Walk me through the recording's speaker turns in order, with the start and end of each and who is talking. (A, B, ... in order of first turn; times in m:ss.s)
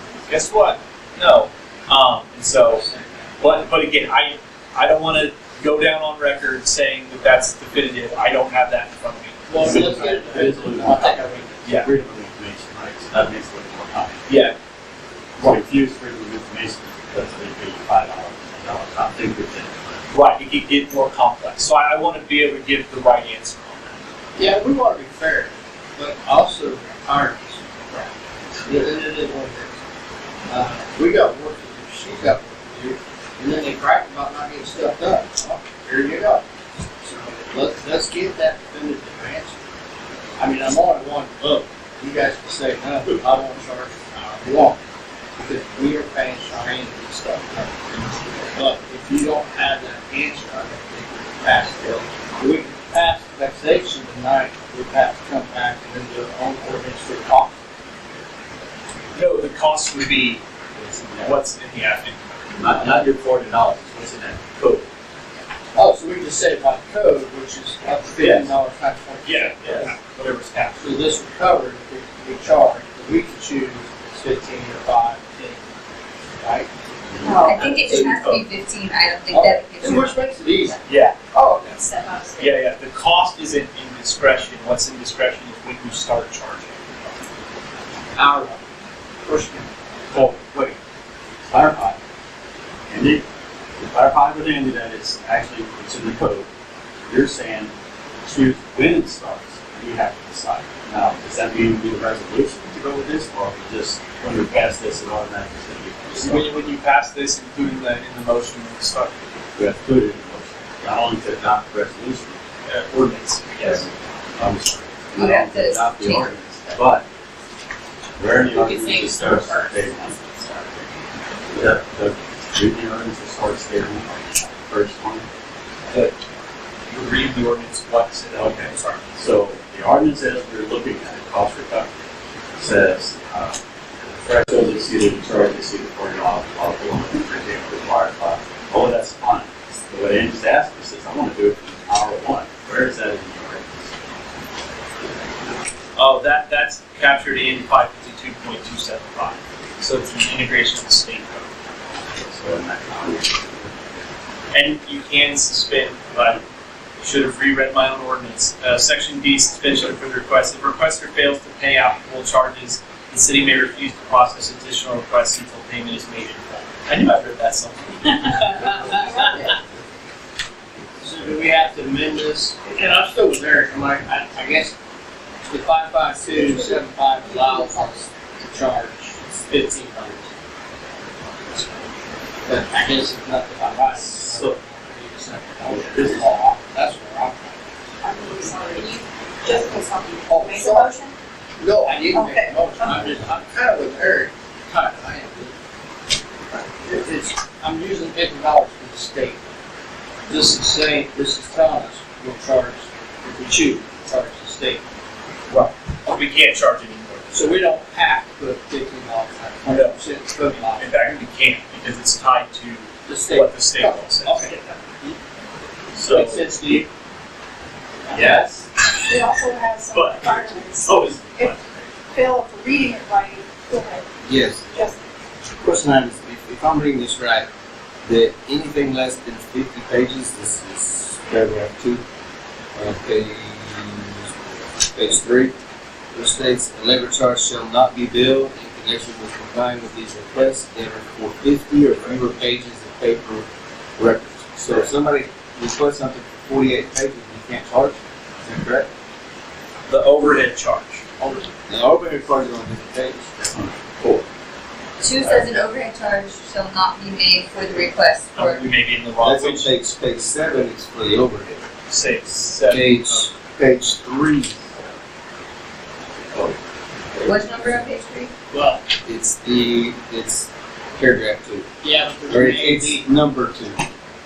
0:00.3-0:02.9 A
0:02.8-0:03.3 B
0:03.4-0:10.5 A
0:09.5-0:11.6 B
0:09.6-0:14.2 C
0:11.6-0:11.9 A
0:14.3-0:14.5 A
0:15.4-0:20.0 C
0:20.1-0:24.0 A
0:24.4-0:28.0 B
0:28.6-0:29.7 B
0:30.5-0:36.4 B
0:37.0-0:39.6 B
0:40.4-0:44.8 B
0:45.4-0:47.7 B
0:48.5-0:57.6 B
0:59.1-1:00.4 A
1:01.0-1:01.3 C
1:01.2-1:03.1 A
1:02.6-1:04.8 C
1:05.7-1:09.9 B
1:08.2-1:08.5 A
1:09.2-1:10.8 A
1:10.8-1:15.6 B
1:16.4-1:16.7 B
1:17.1-1:17.4 C
1:17.4-1:20.2 D
1:17.6-1:18.4 A
1:19.3-1:20.8 B
1:20.8-1:21.2 A
1:21.3-1:21.8 B
1:21.8-1:22.4 E
1:22.4-1:26.8 A
1:28.1-1:28.6 B
1:29.2-1:29.7 B
1:30.1-1:30.8 C
1:31.5-1:32.0 C
1:32.9-1:33.2 C
1:33.8-1:36.5 C
1:37.1-1:37.7 C
1:38.2-1:46.5 C
1:46.2-1:49.2 A
1:49.6-1:52.4 C
1:52.6-1:53.9 A
1:54.4-1:57.0 C
1:55.1-1:56.3 D
1:58.2-2:00.6 C
2:01.5-2:05.2 C
2:05.9-2:06.1 A
2:06.9-2:09.0 A
2:08.3-2:11.9 C
2:12.6-2:23.9 C
2:26.0-2:31.5 A
2:32.1-2:33.7 C
2:34.5-2:36.4 A
2:37.0-2:49.3 A
2:51.0-2:54.7 B
2:55.5-3:00.3 B
2:56.3-2:57.9 E
3:02.4-3:07.6 B
3:03.9-3:04.6 C
3:05.6-3:06.3 C
3:08.0-3:11.1 E
3:10.3-3:11.0 B
3:11.6-3:15.5 B
3:12.1-3:13.0 E
3:16.8-3:19.4 B
3:20.3-3:24.8 B
3:25.5-3:27.6 A
3:27.3-3:31.0 B
3:29.6-3:34.5 A
3:33.0-3:35.2 B
3:36.0-3:36.4 C
3:36.1-3:36.4 A
3:36.1-3:36.9 B
3:38.1-3:38.6 C
3:38.1-3:38.4 A
3:39.0-3:41.6 E
3:39.9-3:41.6 A
3:42.1-3:44.0 E
3:44.2-3:44.6 F
3:44.7-3:45.0 E
3:45.6-3:47.4 F
3:48.0-3:52.0 F
3:52.7-3:54.3 F
3:54.9-3:55.5 F
3:56.1-4:03.4 F
4:04.0-4:08.9 F
4:09.9-4:11.1 A
4:11.7-4:14.2 F
4:15.0-4:18.7 D
4:18.3-4:19.7 A
4:19.2-4:21.6 F
4:21.9-4:23.3 A
4:22.7-4:24.7 F
4:27.2-4:27.9 F
4:27.2-4:28.3 D
4:28.5-4:28.8 B
4:29.0-4:31.6 F
4:31.8-4:33.1 B
4:32.3-4:33.8 F